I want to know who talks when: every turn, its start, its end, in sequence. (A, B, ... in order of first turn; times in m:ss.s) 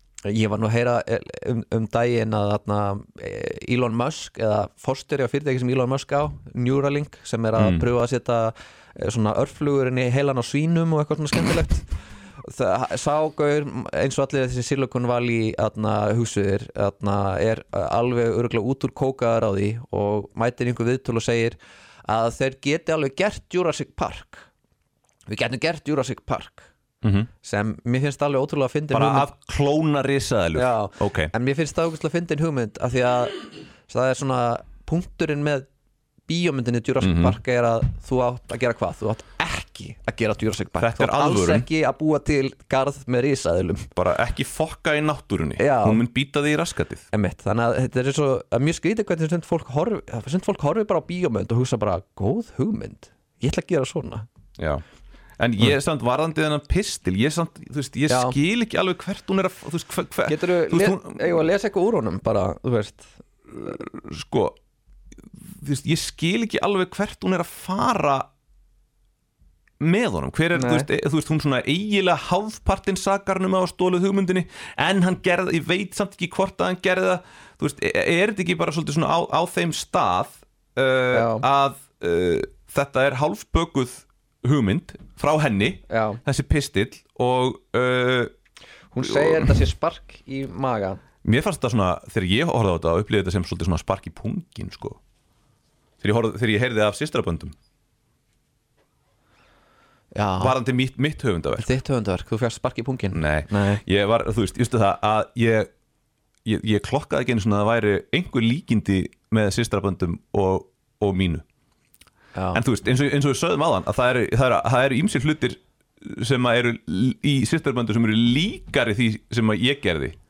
0:00.2-0:11.9 A
0:07.6-0:07.9 B
0:12.4-0:24.5 A
0:25.3-0:26.7 A
0:27.0-0:27.3 B
0:27.4-0:29.3 A
0:28.9-0:31.3 B
0:30.6-0:35.7 A
0:36.3-0:43.9 A
0:37.0-0:37.4 B
0:40.8-0:41.7 B
0:44.0-0:47.1 B
0:45.6-0:46.0 A
0:47.1-0:54.3 A
0:54.6-0:54.8 B
0:55.4-1:01.2 B
0:58.1-0:58.4 A
1:00.3-1:03.1 A
1:03.5-1:04.6 B
1:05.6-1:08.3 B
1:09.8-1:28.3 B
1:10.6-1:10.9 A
1:21.1-1:21.4 A
1:25.9-1:26.2 A
1:28.9-1:31.0 A
1:29.0-1:29.6 B
1:31.2-1:35.0 B
1:36.0-1:37.6 B
1:40.1-1:40.6 A
1:40.4-1:41.7 B
1:41.6-1:43.8 A
1:43.1-1:45.7 B
1:46.4-1:51.4 B
1:52.4-1:52.6 A
1:52.5-2:00.2 B